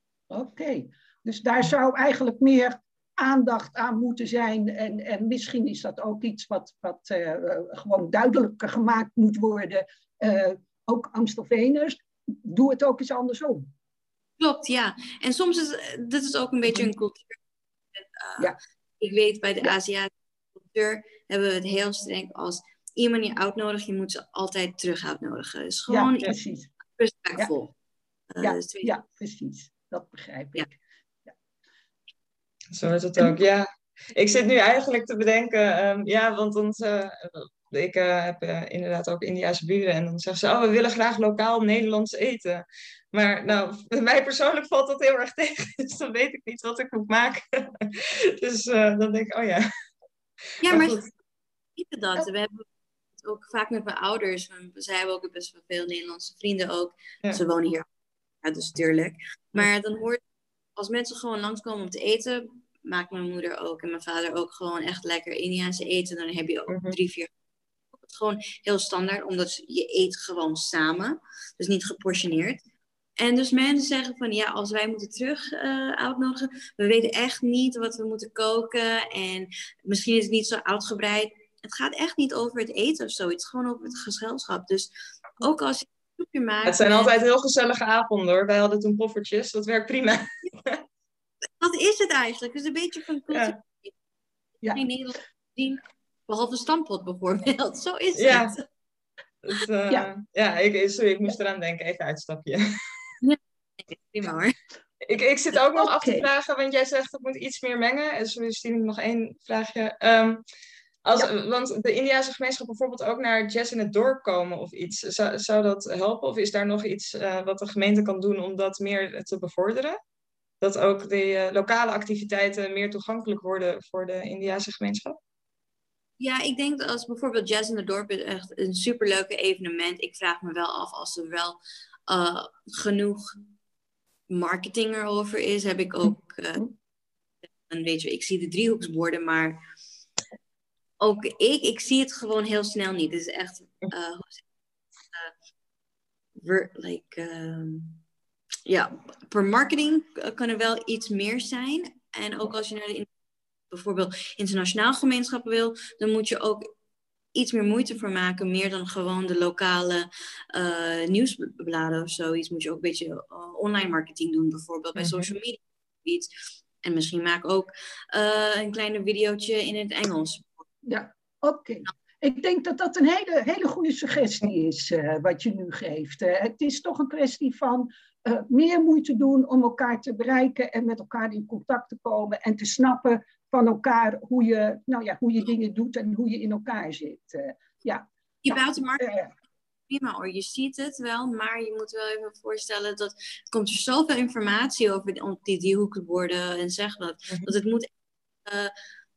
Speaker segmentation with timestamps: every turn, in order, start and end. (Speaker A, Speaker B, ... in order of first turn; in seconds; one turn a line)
Speaker A: 0.3-13.7
Speaker B: 14.4-17.4
Speaker B: 18.0-26.4
Speaker A: 25.9-26.7
Speaker B: 27.0-27.7
Speaker B: 28.4-28.9
Speaker A: 28.4-31.4
Speaker C: 32.7-49.7
Speaker B: 50.6-51.0
Speaker C: 50.7-51.1
Speaker B: 51.8-57.9
Speaker B: 58.4-60.2
Speaker B: 60.8-67.3
Speaker C: 66.7-67.0
Speaker B: 68.0-72.6
Speaker B: 73.2-87.1
Speaker C: 86.7-90.8
Speaker B: 91.6-93.9
Speaker B: 94.7-98.6
Speaker C: 98.2-98.5
Speaker C: 99.4-102.6
Speaker B: 103.2-104.6
Speaker C: 105.0-110.4
Speaker A: 105.7-106.3
Speaker C: 111.0-120.0
Speaker C: 120.6-125.2
Speaker B: 126.2-133.4
Speaker B: 134.3-136.6
Speaker B: 137.7-139.6
Speaker B: 141.0-144.4
Speaker B: 146.4-148.0
Speaker B: 148.7-153.1
Speaker B: 153.7-156.6
Speaker B: 157.3-166.3
Speaker C: 165.0-165.2
Speaker B: 166.8-170.7
Speaker A: 170.9-189.3
Speaker B: 188.4-189.1
Speaker B: 189.9-197.9
Speaker B: 198.4-198.7